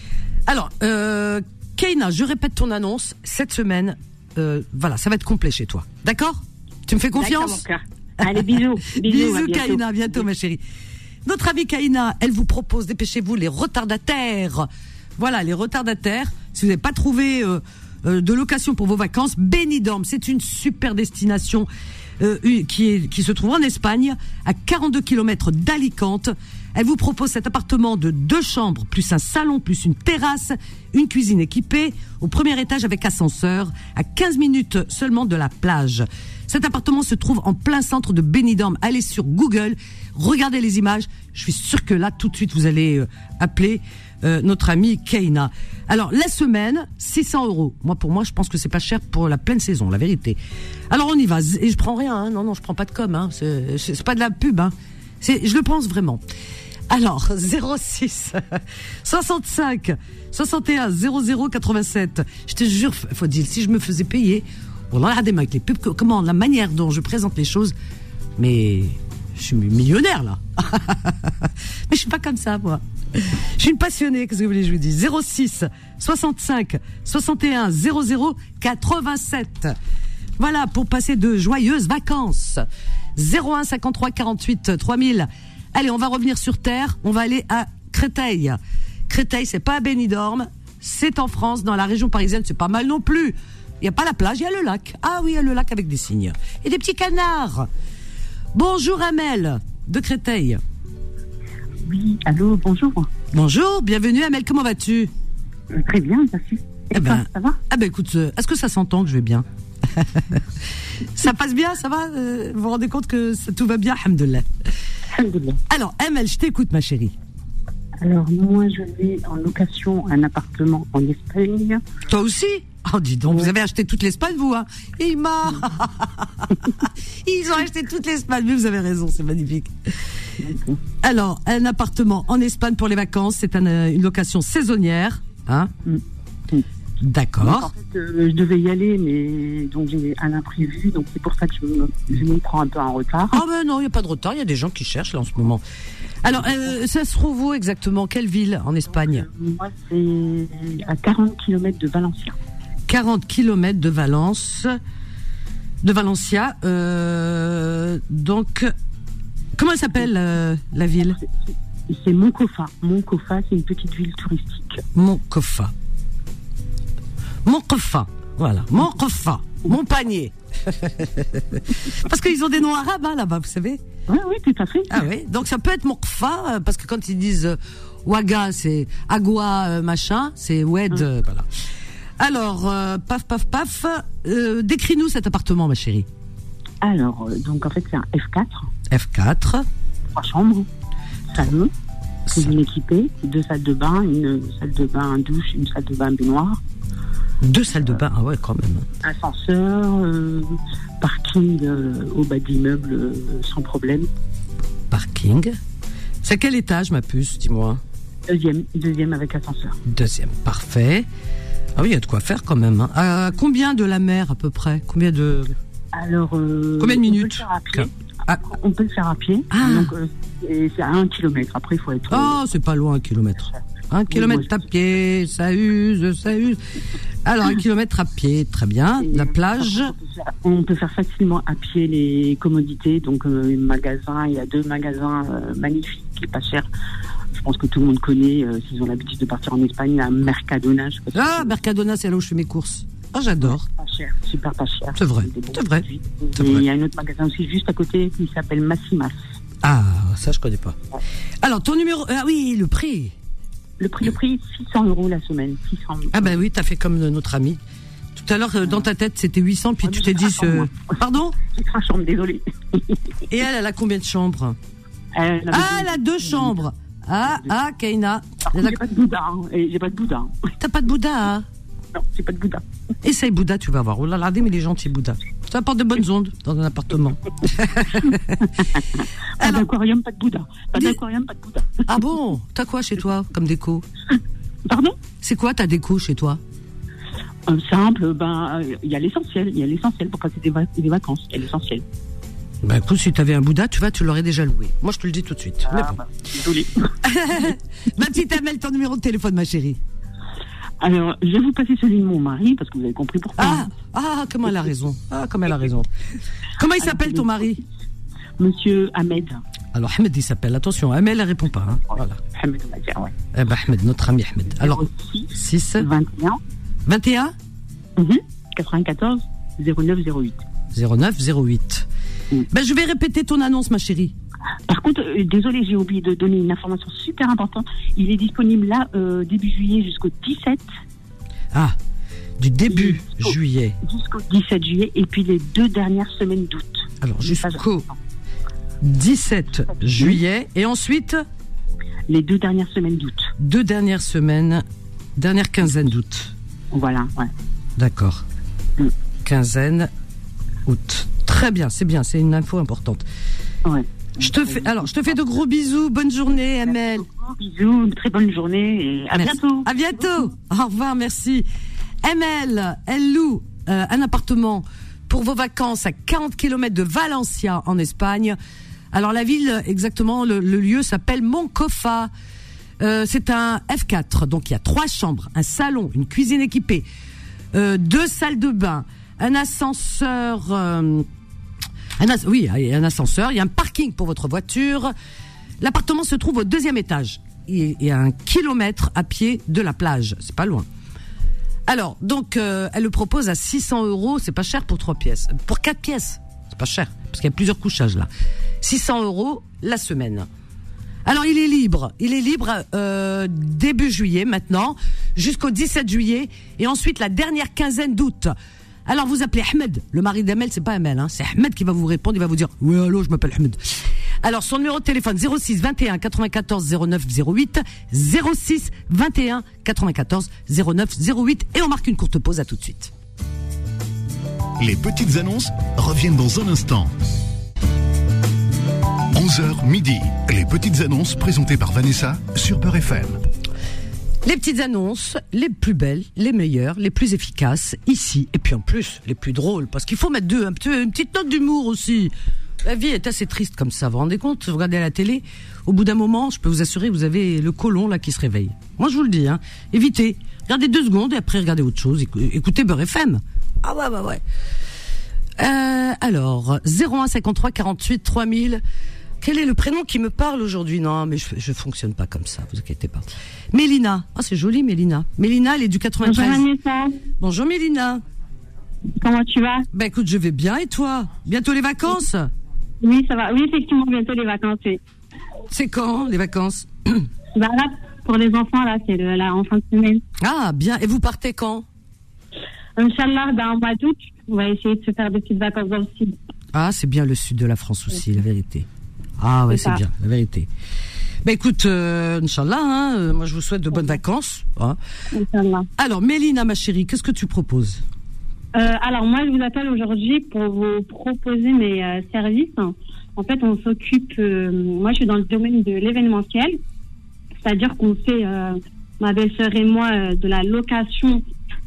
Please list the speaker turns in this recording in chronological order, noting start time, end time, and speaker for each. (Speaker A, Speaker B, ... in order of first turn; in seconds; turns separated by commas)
Speaker A: 0.5-7.6, Speaker B: 7.1-10.2, Speaker A: 8.2-10.6, Speaker A: 11.2-21.7, Speaker A: 22.2-50.4, Speaker A: 50.9-56.2, Speaker A: 56.9-67.7, Speaker A: 68.4-79.7, Speaker A: 80.4-82.6, Speaker A: 83.2-97.7, Speaker A: 98.5-100.6, Speaker C: 101.8-103.1, Speaker A: 103.3-105.1, Speaker C: 105.7-107.6, Speaker A: 106.9-110.4, Speaker A: 111.0-114.5, Speaker C: 115.1-115.6, Speaker A: 115.7-117.1, Speaker C: 118.0-121.8, Speaker A: 122.1-129.7, Speaker C: 130.4-130.8, Speaker A: 131.0-135.7, Speaker C: 135.8-136.6, Speaker A: 137.0-137.7, Speaker C: 137.4-143.4, Speaker A: 143.3-145.6, Speaker A: 146.2-149.2, Speaker C: 149.0-152.3, Speaker A: 152.9-154.7, Speaker A: 155.8-158.7, Speaker A: 159.5-161.2, Speaker C: 161.2-164.8, Speaker A: 164.9-165.7, Speaker A: 167.4-173.8, Speaker C: 174.1-175.0, Speaker A: 174.9-181.5, Speaker A: 182.2-186.1, Speaker C: 186.8-188.7, Speaker A: 188.9-189.7, Speaker C: 190.1-190.7, Speaker C: 191.3-191.7, Speaker C: 192.3-196.6, Speaker A: 197.4-198.9, Speaker C: 199.0-204.1, Speaker A: 204.9-205.6, Speaker A: 206.2-207.8, Speaker C: 208.3-209.8, Speaker A: 209.8-211.1, Speaker A: 211.8-215.6, Speaker C: 215.9-222.4, Speaker A: 216.8-218.4, Speaker A: 219.5-219.9, Speaker A: 222.1-226.6, Speaker C: 224.1-224.5, Speaker A: 227.2-229.9, Speaker C: 229.0-236.7, Speaker C: 237.3-241.5, Speaker A: 241.1-243.7, Speaker C: 243.4-249.2, Speaker A: 244.9-246.6, Speaker A: 249.6-250.8, Speaker A: 251.4-253.1, Speaker C: 253.8-256.4, Speaker A: 256.1-257.6, Speaker A: 258.1-261.4, Speaker C: 259.8-263.0, Speaker A: 263.3-264.6, Speaker C: 265.1-266.6, Speaker A: 265.5-268.8, Speaker C: 268.5-270.5, Speaker A: 270.6-271.4, Speaker C: 271.9-272.6, Speaker A: 273.0-278.5, Speaker C: 278.4-281.9, Speaker A: 279.4-279.7, Speaker A: 281.9-283.8, Speaker C: 284.7-285.0, Speaker A: 285.2-286.4, Speaker C: 287.5-291.8, Speaker A: 292.6-296.0, Speaker C: 295.7-296.9, Speaker A: 297.0-299.8, Speaker C: 300.8-303.7, Speaker A: 303.4-305.9, Speaker A: 306.6-307.6, Speaker C: 306.8-307.6, Speaker C: 308.4-309.4, Speaker A: 309.7-312.2, Speaker C: 312.3-313.1, Speaker A: 313.3-315.9, Speaker C: 314.6-316.4, Speaker A: 316.9-317.3, Speaker C: 318.0-320.4, Speaker A: 320.7-321.9, Speaker A: 322.5-324.1, Speaker C: 324.7-330.7, Speaker A: 331.5-331.8, Speaker A: 332.4-333.8, Speaker C: 332.7-337.9, Speaker A: 337.0-337.9, Speaker A: 338.8-341.2, Speaker C: 342.1-343.3, Speaker A: 343.4-344.6, Speaker A: 345.1-346.3, Speaker C: 346.7-347.3, Speaker A: 347.8-348.2, Speaker A: 349.2-349.9, Speaker A: 350.6-353.0, Speaker C: 353.6-354.9, Speaker A: 354.2-357.1, Speaker C: 356.8-359.7, Speaker A: 359.1-361.4, Speaker A: 362.0-368.4, Speaker A: 368.9-372.1, Speaker A: 372.8-376.8, Speaker A: 377.5-381.1, Speaker A: 382.0-384.9, Speaker A: 385.6-390.6, Speaker A: 391.7-398.1, Speaker A: 398.6-400.3, Speaker A: 401.0-408.3, Speaker A: 408.9-422.9, Speaker D: 424.6-426.9, Speaker D: 429.1-433.2, Speaker A: 434.2-454.2, Speaker A: 455.4-458.6, Speaker A: 459.2-466.4, Speaker E: 466.0-467.0, Speaker A: 467.2-468.0, Speaker E: 469.0-469.6, Speaker A: 469.7-472.3, Speaker E: 472.8-474.8, Speaker A: 475.5-477.1, Speaker E: 477.3-480.0, Speaker A: 480.2-481.6, Speaker E: 482.8-486.1, Speaker A: 486.5-488.7, Speaker A: 489.2-490.5, Speaker E: 489.5-489.8, Speaker A: 491.2-494.8, Speaker E: 495.1-495.7, Speaker A: 495.8-497.8, Speaker E: 498.5-506.6, Speaker E: 507.4-511.2